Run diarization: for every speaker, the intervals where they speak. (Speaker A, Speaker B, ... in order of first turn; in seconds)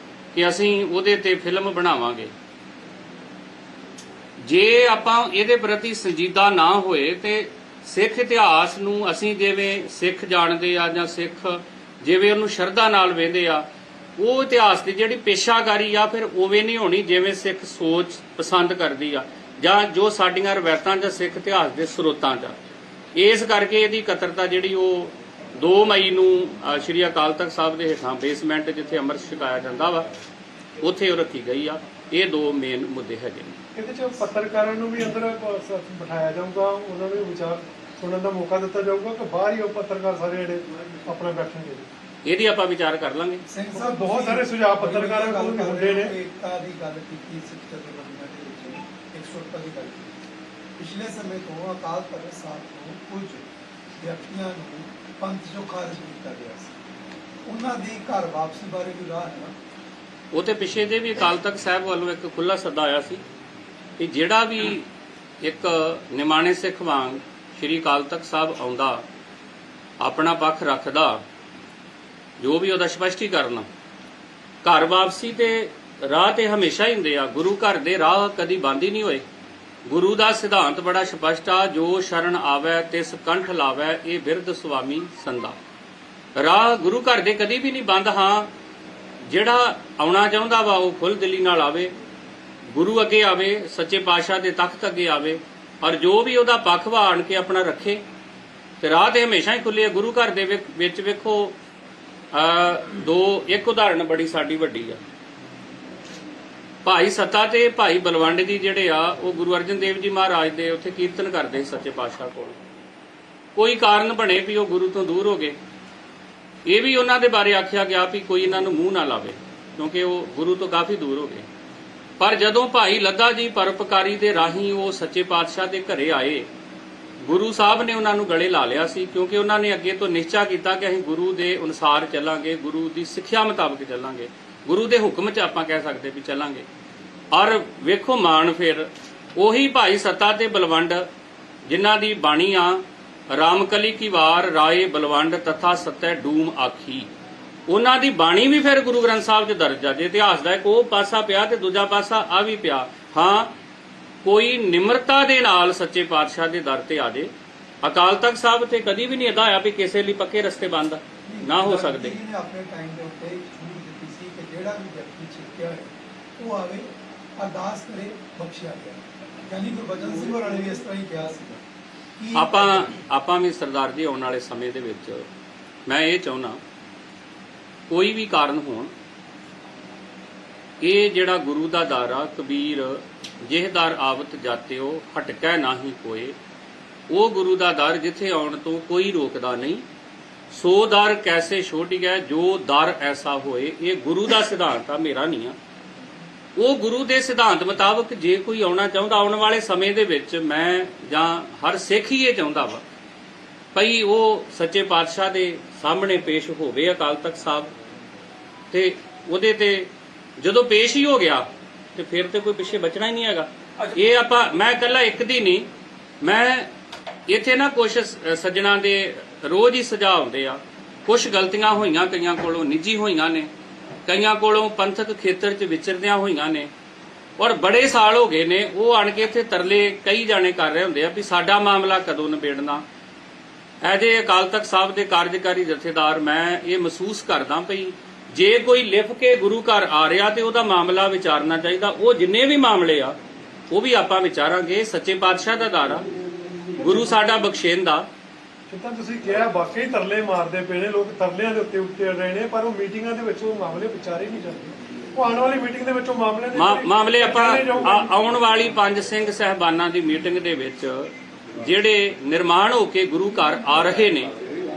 Speaker A: 0.3-2.3, 4.4-13.7, 14.2-22.6, 23.1-30.1, 30.8-33.6, 42.2-43.4, 60.3-63.2, 64.0-64.9, 65.4-69.0, 70.0-71.2, 72.4-73.7, 74.6-79.2, 79.8-85.6, 86.3-88.5, 89.2-91.9, 92.7-98.0, 98.8-101.5, 102.3-105.0, 106.8-112.6, 113.5-115.6, 116.7-121.5, 122.2-126.5, 127.2-136.7, 137.3-141.1, 141.7-147.1, 147.7-153.5, 154.2-157.3, 157.8-162.2, 172.3-175.3, 175.9-176.6, 177.9-178.9, 180.8-186.3, 187.1-189.8, 190.5-195.6, 196.6-202.8, 203.7-207.7, 208.7-215.7, 216.2-216.7, 217.3-223.5, 224.1-226.7, 227.4-232.8, 233.8-243.2, 243.7-246.1, 246.8-248.1, 256.5-264.3
Speaker B: 33.7-41.9, 43.7-46.1, 248.7-258.1
Speaker C: 43.5-50.1, 50.8-53.4, 54.0-56.8, 57.5-59.5, 161.2-171.6, 172.2-172.9